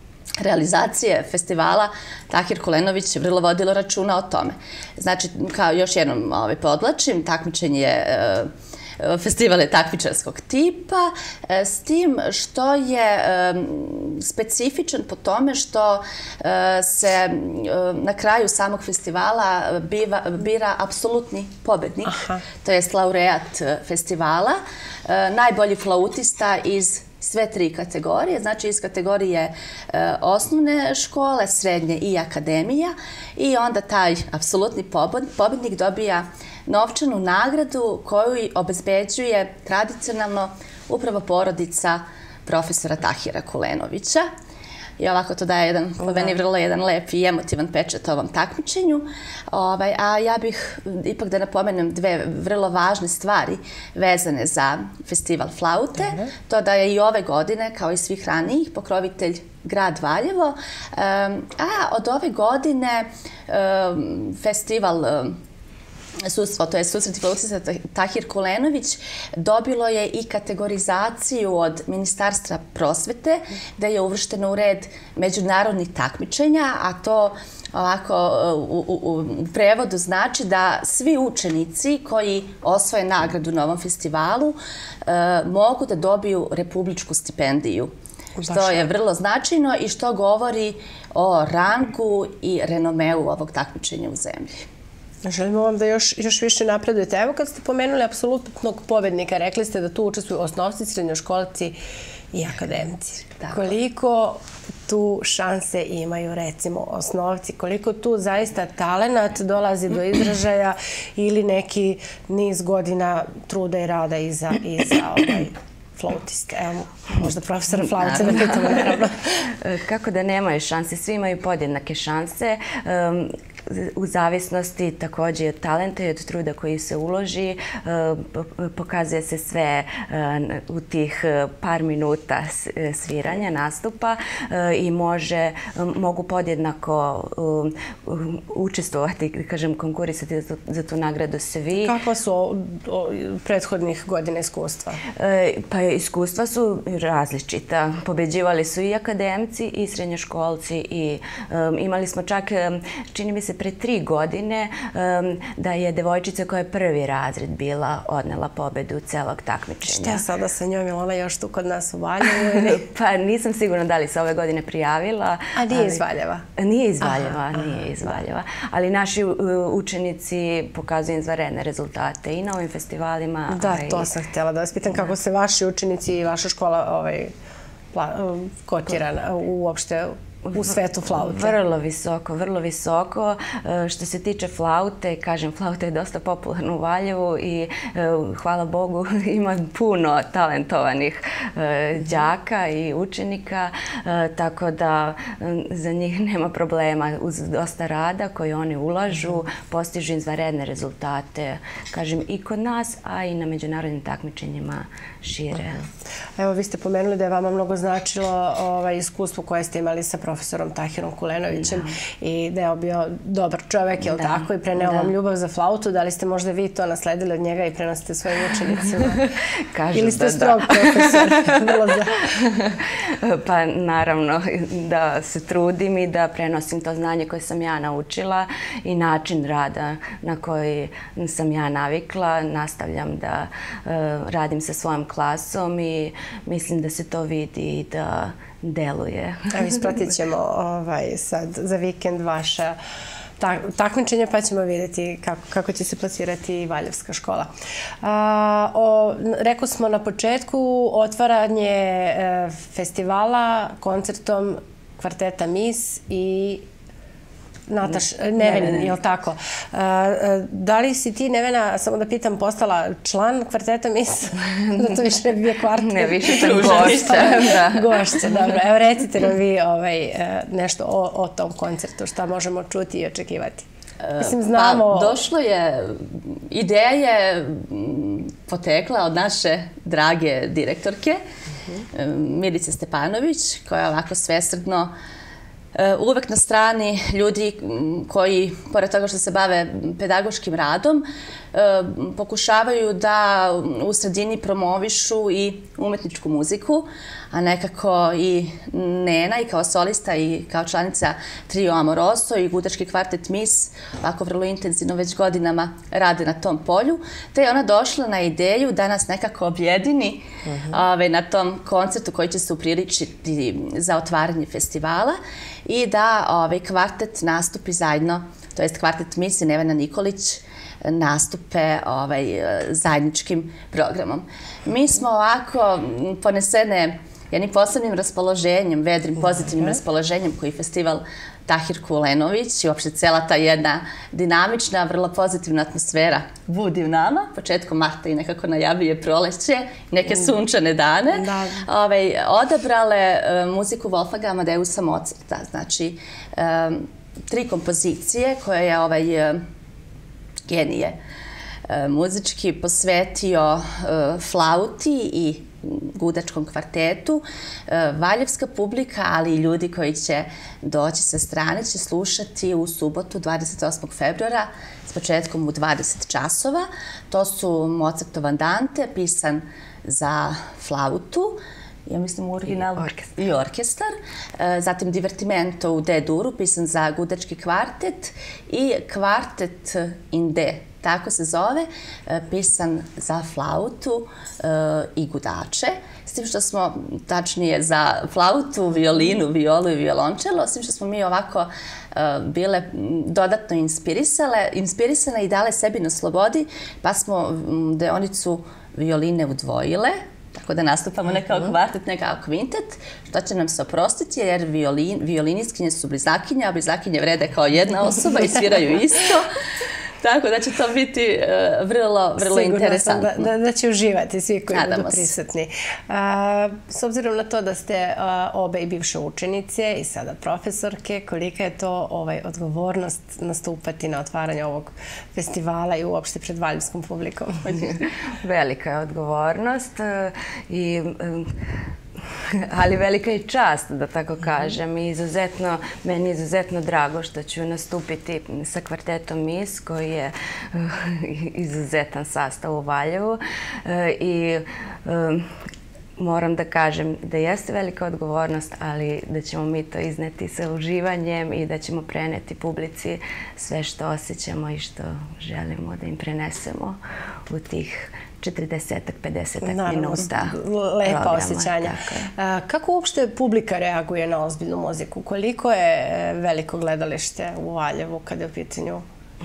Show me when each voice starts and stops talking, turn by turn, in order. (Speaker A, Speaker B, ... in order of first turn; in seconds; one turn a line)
Speaker A: 0.4-44.3
Speaker B: 22.1-22.4
Speaker A: 45.0-65.4
Speaker A: 66.2-87.9
Speaker B: 88.4-88.9
Speaker A: 88.5-94.7
Speaker B: 95.2-101.8
Speaker B: 102.3-119.5
Speaker C: 118.1-141.9
Speaker B: 141.8-145.0
Speaker C: 145.2-160.2
Speaker B: 159.8-162.8
Speaker C: 162.5-166.0
Speaker B: 165.6-166.4
Speaker C: 166.6-174.1
Speaker B: 173.5-177.3
Speaker B: 177.9-181.6
Speaker C: 180.5-205.9
Speaker B: 206.4-219.2
Speaker C: 214.1-215.1
Speaker C: 219.1-239.8
Speaker B: 219.9-222.4
Speaker B: 239.5-242.8
Speaker B: 243.4-247.5
Speaker B: 248.0-256.7
Speaker B: 257.7-273.7
Speaker C: 258.4-258.8
Speaker C: 265.7-268.3
Speaker A: 266.3-267.5
Speaker A: 274.0-281.2
Speaker B: 274.2-275.2
Speaker A: 281.9-284.9
Speaker A: 285.7-349.4
Speaker B: 341.1-341.6
Speaker A: 350.5-351.0
Speaker A: 351.7-409.4
Speaker C: 372.6-373.1
Speaker A: 410.0-413.3
Speaker B: 412.2-427.7
Speaker A: 414.5-415.1
Speaker C: 427.5-445.3
Speaker C: 446.0-462.1
Speaker B: 459.4-468.8